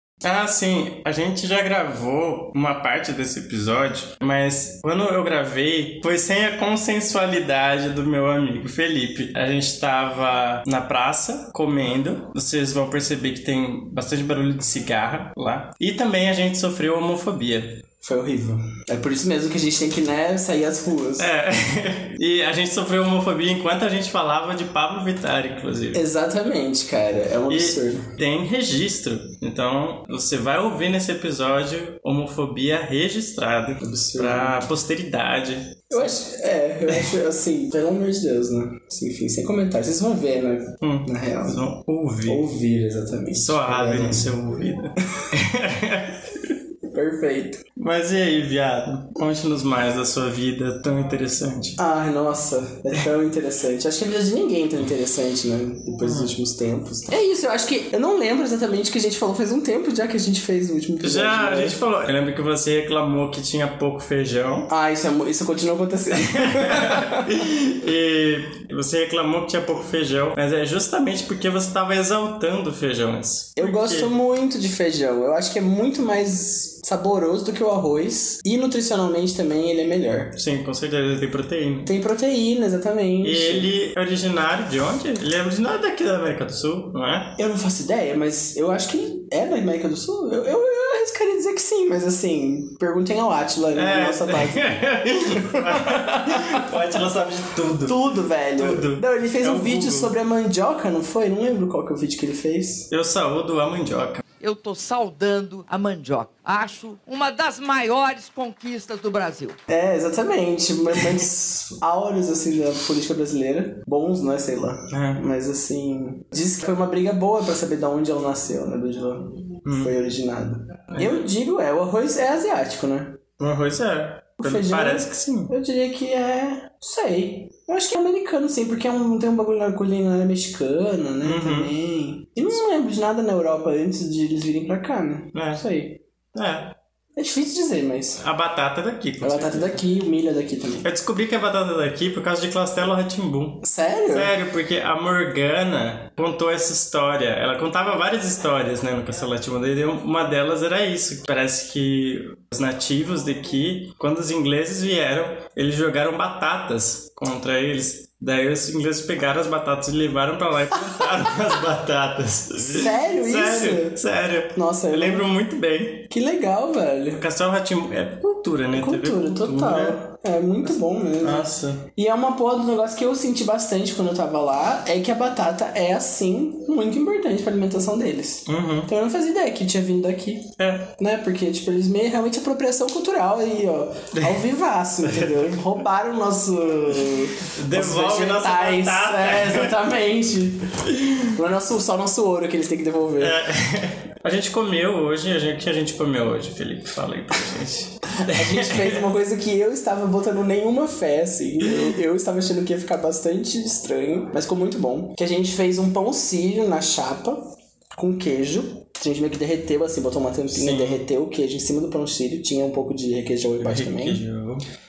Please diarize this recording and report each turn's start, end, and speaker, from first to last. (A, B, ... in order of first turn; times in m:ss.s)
0:00.2-0:17.8 A
0:18.0-0:21.3 B
0:21.2-0:26.0 A
0:25.9-0:28.1 B
0:27.5-0:36.2 A
0:33.8-0:34.6 B
0:35.9-0:41.6 B
0:40.8-0:42.5 A
0:42.3-0:44.3 B
0:43.3-0:46.4 A
0:46.9-0:47.6 B
0:47.8-0:51.8 A
0:51.8-1:01.8 B
0:56.0-0:56.3 A
1:01.0-1:04.7 A
1:04.7-1:07.3 B
1:06.1-1:14.1 A
1:13.6-1:20.3 B
1:20.4-1:21.9 A
1:21.9-1:23.7 B
1:23.2-1:27.4 A
1:27.4-1:36.7 B
1:33.7-1:38.0 A
1:37.8-1:42.9 B
1:38.6-1:40.2 A
1:42.9-1:44.2 A
1:44.4-1:49.6 C
1:49.7-2:03.2 B
1:54.9-1:55.2 A
1:59.7-1:59.9 A
2:00.9-2:01.2 A
2:03.4-2:05.5 A
2:04.4-2:16.0 B
2:11.2-2:11.7 A
2:15.3-2:15.6 A
2:16.3-2:16.8 A
2:17.2-2:18.2 B
2:18.2-2:19.8 A
2:19.2-2:20.9 B
2:20.8-2:46.1 A
2:23.6-2:24.3 B
2:42.6-2:44.0 B
2:44.5-2:45.3 B
2:46.1-2:47.2 B
2:47.2-2:50.0 A
2:48.7-3:13.4 B
2:51.2-2:51.9 A
2:58.5-2:58.9 A
3:00.6-3:00.9 A
3:05.0-3:05.6 A
3:07.5-3:09.7 A
3:13.2-3:19.0 A
3:18.1-3:34.2 B
3:30.5-3:31.0 A
3:33.6-3:34.7 A